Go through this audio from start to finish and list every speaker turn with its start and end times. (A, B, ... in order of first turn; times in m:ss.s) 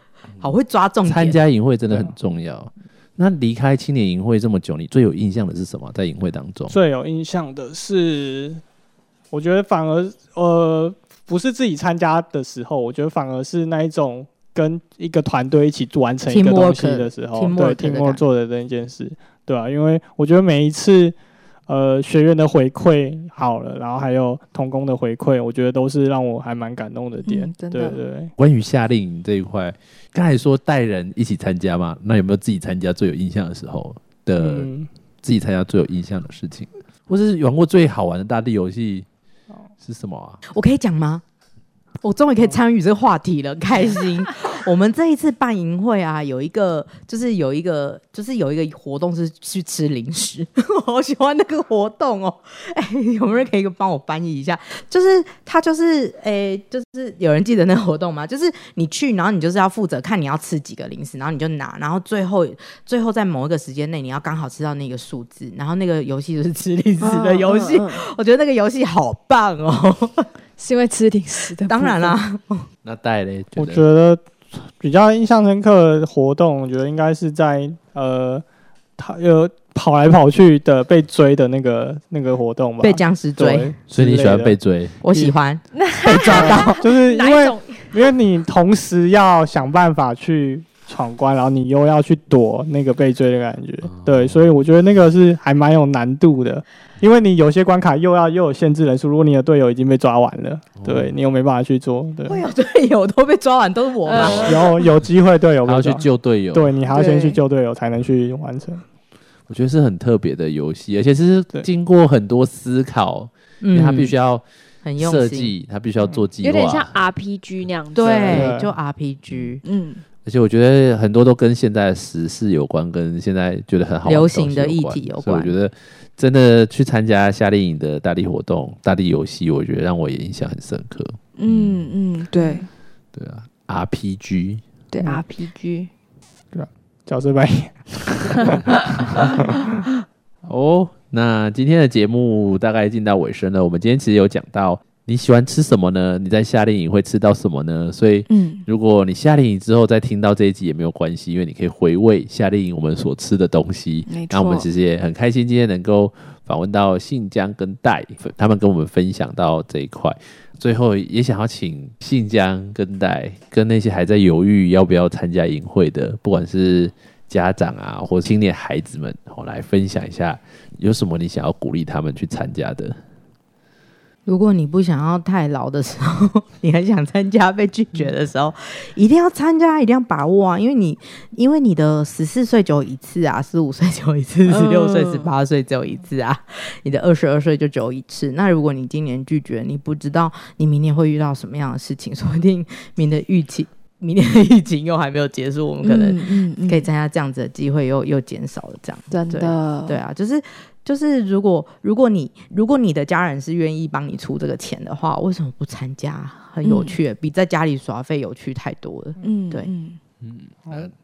0:00.4-0:01.4 A
0:01.0-0:06.7 B
0:06.7-0:08.6 C
0:09.3-0:21.2 C
0:16.2-0:18.2 A
0:21.7-0:28.3 C
0:27.2-0:28.0 D
0:28.4-0:34.7 B
0:34.4-0:34.9 C
0:35.2-0:39.0 B
0:39.8-0:40.4 B
0:40.5-0:41.2 A
0:42.0-1:10.3 A
1:07.0-1:08.0 D
1:10.6-1:12.2 D
1:11.7-1:12.6 A
1:12.8-1:13.8 B
1:13.6-1:18.4 C
1:19.0-1:24.6 C
1:22.8-1:23.7 A
1:23.9-1:25.0 B
1:25.0-1:26.8 A
1:25.7-1:28.1 D
1:26.1-1:42.4 C
1:33.8-1:34.4 B
1:40.8-1:41.1 B
1:42.3-1:44.8 A
1:44.0-1:44.6 D
1:44.1-1:44.5 B
1:44.2-1:48.8 C
1:45.6-1:46.7 B
1:46.9-1:47.4 D
1:49.5-1:54.4 B
1:53.6-1:54.1 A
1:54.8-1:55.5 A
1:55.0-1:56.9 B
1:56.4-1:58.5 D
1:57.9-1:59.6 A
1:58.0-1:58.7 C
1:59.6-2:00.0 D
2:00.2-2:11.8 B
2:04.0-2:05.5 A
2:11.4-2:12.7 D
2:13.1-2:14.6 B
2:14.9-2:15.9 D
2:16.5-2:19.8 C
2:20.4-2:53.0 B
2:28.3-2:28.6 D
2:34.1-2:34.6 D
2:54.2-3:29.7 A
3:04.5-3:05.3 D
3:15.8-3:16.9 D
3:19.1-3:20.0 D
3:26.6-3:27.0 D
3:29.2-3:30.0 D
3:30.2-3:30.9 B